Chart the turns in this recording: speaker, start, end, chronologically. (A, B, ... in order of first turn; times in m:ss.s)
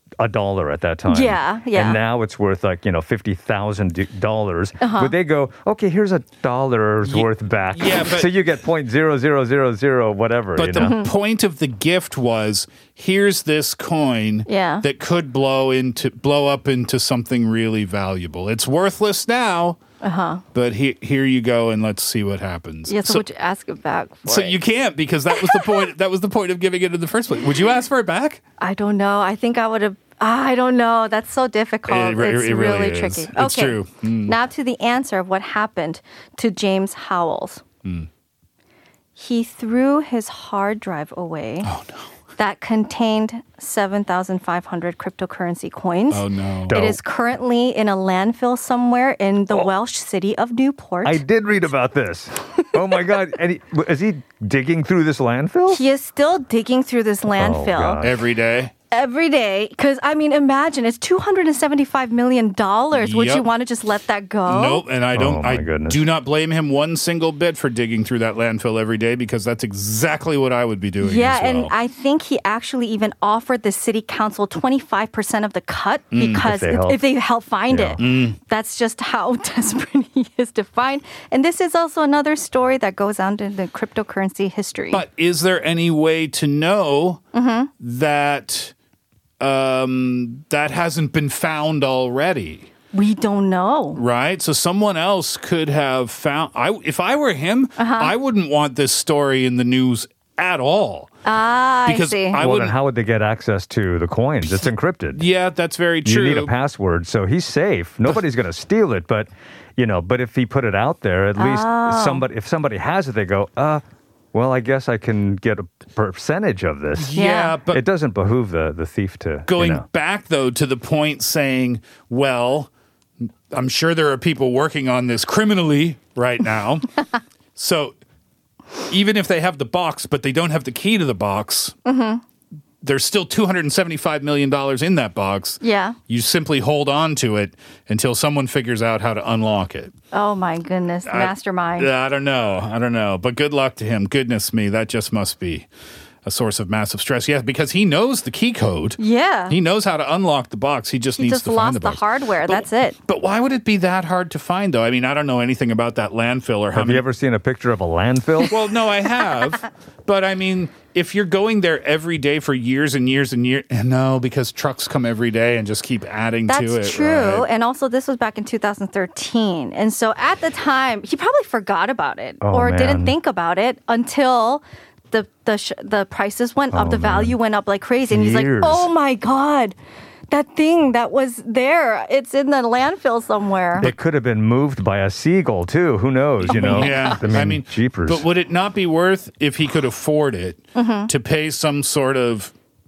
0:00.2-0:11.0 A
0:01.1-0:02.0 B
0:04.8-0:05.1 B
0:07.0-0:08.3 C
0:10.6-0:19.8 C
0:10.8-0:11.1 B
0:14.4-0:14.8 B
0:20.0-0:20.4 B
0:20.5-0:23.2 C
0:22.9-0:24.6 B
0:24.2-0:28.4 C
0:25.3-0:25.8 B
0:28.6-0:37.6 B
0:31.9-0:34.3 C
0:39.2-0:41.7 B
0:41.6-0:42.1 C
0:42.4-0:51.2 B
0:46.1-0:46.8 C
0:46.7-0:47.0 A
0:51.0-0:55.8 A
0:55.7-0:58.0 B
0:57.3-0:58.2 A
0:58.0-0:58.7 C
0:58.9-1:04.8 B
1:02.9-1:03.4 C
1:04.5-1:11.7 C
1:05.1-1:06.0 A
1:11.0-1:25.0 B
1:16.1-1:16.4 C
1:16.3-1:17.0 A
1:17.7-1:18.0 A
1:18.0-1:18.4 C
1:24.9-1:27.2 C
1:27.3-1:27.7 B
1:27.8-1:28.7 C
1:29.4-1:32.7 C
1:32.9-1:34.0 B
1:33.9-1:41.1 C
1:37.8-1:38.1 B
1:41.2-1:42.4 B
1:41.8-1:42.7 C
1:42.4-1:45.2 A
1:45.1-1:46.5 C
1:46.0-1:59.8 A
1:51.4-1:52.2 B
1:57.0-1:57.8 C
1:57.1-1:57.6 B
1:59.5-2:02.7 C
2:03.5-2:06.9 C
2:07.6-2:07.9 C
2:08.9-2:11.7 C
2:11.8-2:12.2 B
2:12.8-2:19.9 C
2:15.6-2:16.0 B
2:20.1-2:21.9 B
2:21.0-2:25.7 C
2:26.2-2:37.0 C
2:29.0-2:29.6 B
2:31.2-2:33.0 B
2:36.7-2:38.6 A
2:38.5-2:47.5 C
2:46.5-2:59.7 B
2:52.4-2:53.1 A
2:56.7-2:57.4 A
2:58.1-2:58.9 A
3:00.3-3:03.9 B
3:03.8-3:08.2 A
3:06.4-3:12.5 C
3:06.5-3:07.3 B
3:10.8-3:11.1 B